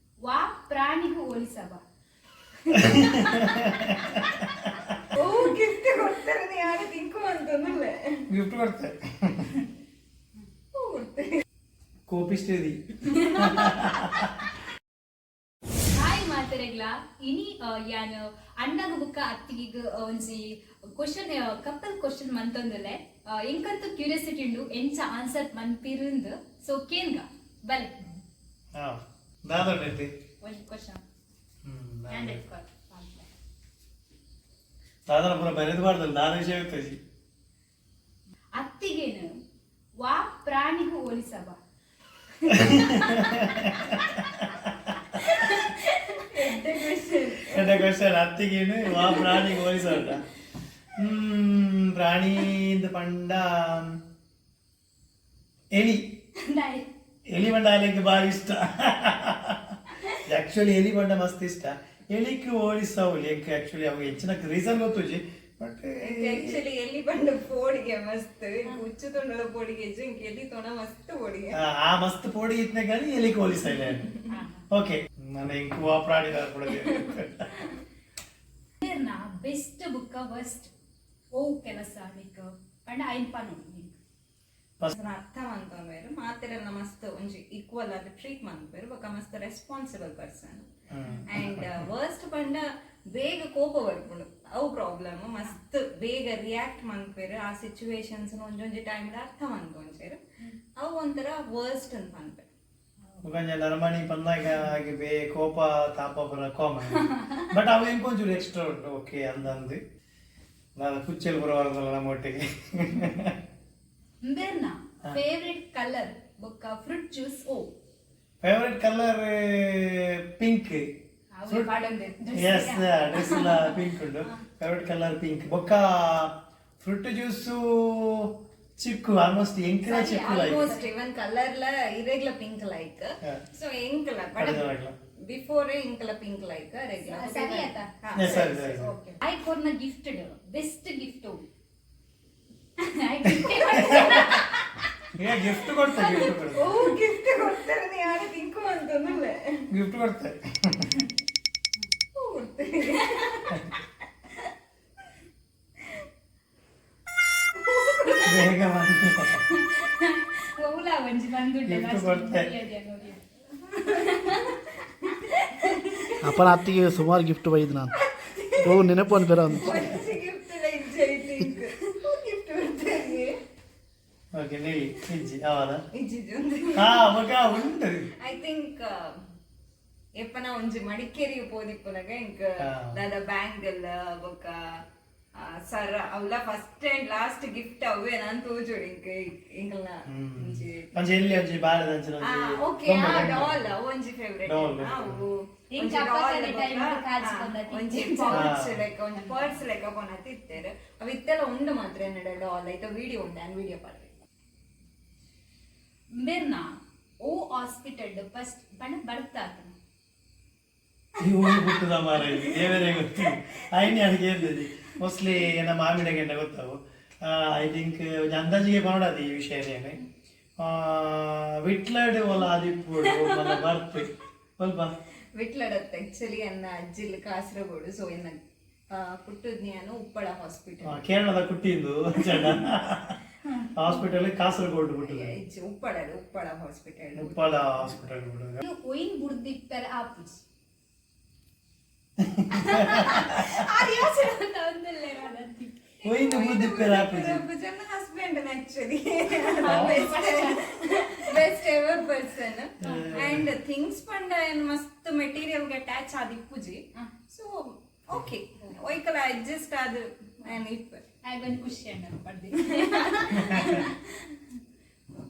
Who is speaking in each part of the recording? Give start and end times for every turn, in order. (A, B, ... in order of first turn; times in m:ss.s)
0:00.2-0:01.8 A
0:02.7-0:04.5 A
0:02.7-0:05.0 B
0:05.1-0:08.2 C
0:08.3-0:09.6 B
0:10.7-0:11.4 C
0:12.1-0:14.3 B
0:13.4-0:13.6 A
0:15.9-0:28.0 A
0:28.8-0:30.1 B
0:30.4-0:31.0 A
0:31.6-0:32.4 B
0:32.1-0:33.3 A
0:35.1-0:37.0 B
0:38.5-0:39.4 A
0:40.0-0:41.6 A
0:42.5-0:43.9 A
0:42.5-0:45.2 B
0:45.1-0:46.3 A
0:46.3-0:47.8 C
0:47.5-0:50.2 B
0:49.1-0:49.6 A
0:51.0-0:54.0 B
0:55.7-0:56.2 B
0:56.4-0:56.9 A
0:57.3-1:06.6 B
1:06.0-1:11.6 C
1:11.5-1:14.1 B
1:14.3-1:14.7 A
1:14.7-1:17.5 B
1:18.8-1:20.7 A
1:21.3-1:24.0 A
1:25.0-1:30.6 C
1:30.9-1:31.8 B
1:31.3-1:40.2 C
1:40.8-1:42.5 C
1:43.2-1:49.8 B
1:50.8-1:53.4 B
1:54.2-1:57.7 A
1:58.4-2:00.9 B
2:01.3-2:03.8 A
2:01.5-2:01.7 B
2:02.3-2:10.6 B
2:09.9-2:10.9 A
2:09.9-2:14.7 C
2:14.4-2:15.0 B
2:15.3-2:19.2 C
2:17.1-2:18.5 A
2:18.1-2:18.9 B
2:19.2-2:21.5 A
2:22.8-2:24.8 A
2:23.4-2:24.4 B
2:25.2-2:26.7 B
2:26.3-2:29.6 C
2:29.7-2:31.0 B
2:32.2-2:33.6 C
2:37.6-2:38.5 C
2:38.2-2:39.5 B
2:39.4-2:43.2 A
2:41.7-2:42.6 B
2:43.7-2:44.5 A
2:44.1-2:46.6 C
2:45.3-2:46.0 A
2:46.2-2:47.9 D
2:47.9-2:53.3 C
2:48.6-2:49.9 D
2:54.3-2:55.8 B
2:56.0-2:57.0 C
2:56.8-2:58.1 B
2:58.2-2:59.2 C
3:00.2-3:04.8 C
3:02.6-3:03.0 B
3:05.4-3:11.0 C
3:10.1-3:13.7 B
3:12.2-3:24.2 C
3:14.4-3:15.2 B
3:15.7-3:18.5 A
3:18.3-3:18.8 B
3:19.2-3:19.5 A
3:26.1-3:29.8 A
3:31.2-3:40.0 B
3:40.6-3:44.9 B
3:45.4-3:48.4 C
3:48.9-3:51.0 C
3:50.8-3:53.2 B
3:53.4-3:53.7 A
3:53.8-3:55.4 B
3:55.0-3:57.4 C
3:57.2-3:58.6 B
3:58.6-4:00.4 A
4:02.2-4:03.6 B
4:02.6-4:05.8 A
4:06.0-4:21.0 C
4:06.0-4:07.4 B
4:09.4-4:11.4 A
4:09.7-4:10.2 B
4:12.8-4:13.3 A
4:12.8-4:13.5 B
4:21.2-4:24.4 A
4:22.5-4:23.9 C
4:23.4-4:23.7 B